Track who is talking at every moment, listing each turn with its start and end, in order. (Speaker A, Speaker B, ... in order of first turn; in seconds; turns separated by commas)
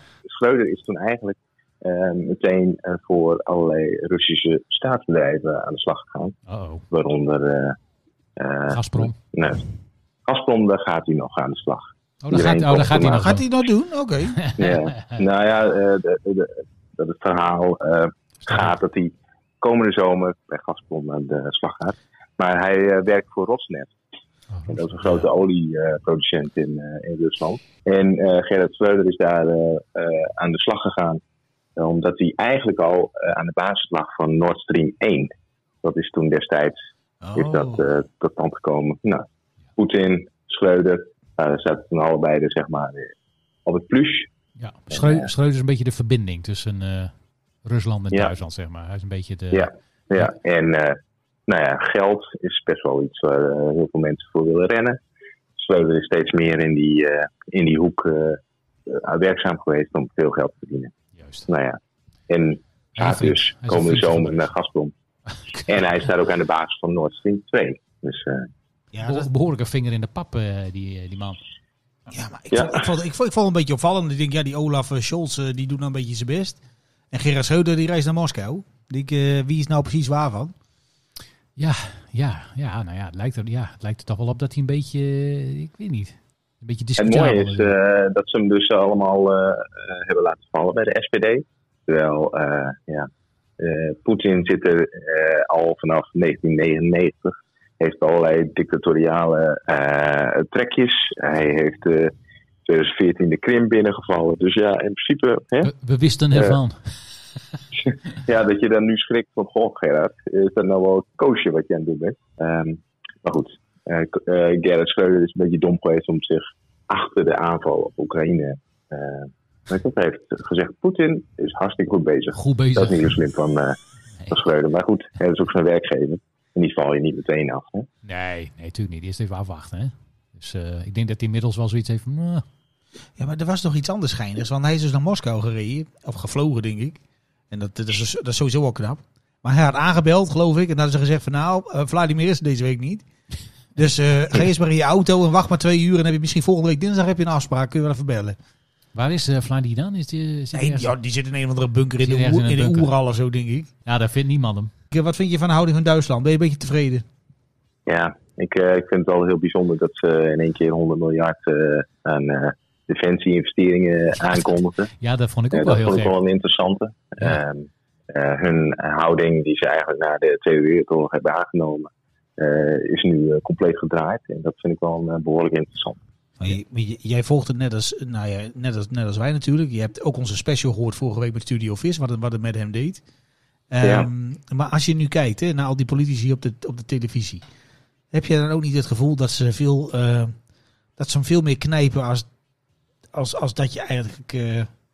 Speaker A: 0.2-6.4, Speaker B: 6.5-6.8, Speaker A: 6.9-7.8, Speaker A: 8.4-9.6, Speaker B: 8.7-9.2, Speaker A: 10.3-13.2, Speaker B: 12.2-13.4, Speaker C: 13.1-14.4, Speaker B: 14.3-15.2, Speaker A: 14.6-23.9, Speaker B: 24.5-25.2, Speaker A: 24.7-31.2, Speaker A: 31.8-35.3, Speaker A: 35.8-36.8, Speaker C: 37.2-37.9, Speaker A: 37.3-39.2, Speaker A: 39.8-43.1, Speaker A: 43.6-44.3, Speaker B: 44.6-47.1, Speaker A: 44.9-45.3, Speaker B: 47.6-49.7, Speaker A: 49.5-55.0, Speaker A: 55.6-60.9, Speaker B: 61.1-61.5, Speaker A: 61.5-64.9, Speaker B: 63.0-64.4, Speaker A: 65.7-68.5, Speaker C: 68.9-69.2, Speaker B: 69.0-71.4, Speaker C: 72.1-76.6, Speaker A: 72.5-72.8, Speaker C: 77.1-80.5, Speaker B: 81.6-87.7, Speaker A: 87.0-102.1, Speaker A: 102.6-105.7, Speaker B: 105.6-106.9, Speaker A: 107.8-123.8, Speaker B: 122.3-123.1, Speaker A: 124.3-127.9, Speaker B: 128.0-132.4, Speaker C: 133.2-137.0, Speaker C: 137.5-143.0, Speaker C: 143.7-148.4, Speaker B: 148.9-150.9, Speaker C: 150.5-153.7, Speaker B: 152.0-152.9, Speaker B: 153.8-154.7, Speaker C: 154.9-157.0, Speaker A: 157.8-164.9, Speaker B: 165.0-166.1, Speaker A: 165.5-176.0, Speaker C: 176.4-183.0, Speaker C: 183.7-187.4, Speaker A: 183.8-184.1, Speaker C: 188.1-190.3, Speaker C: 191.0-192.3, Speaker C: 193.1-194.7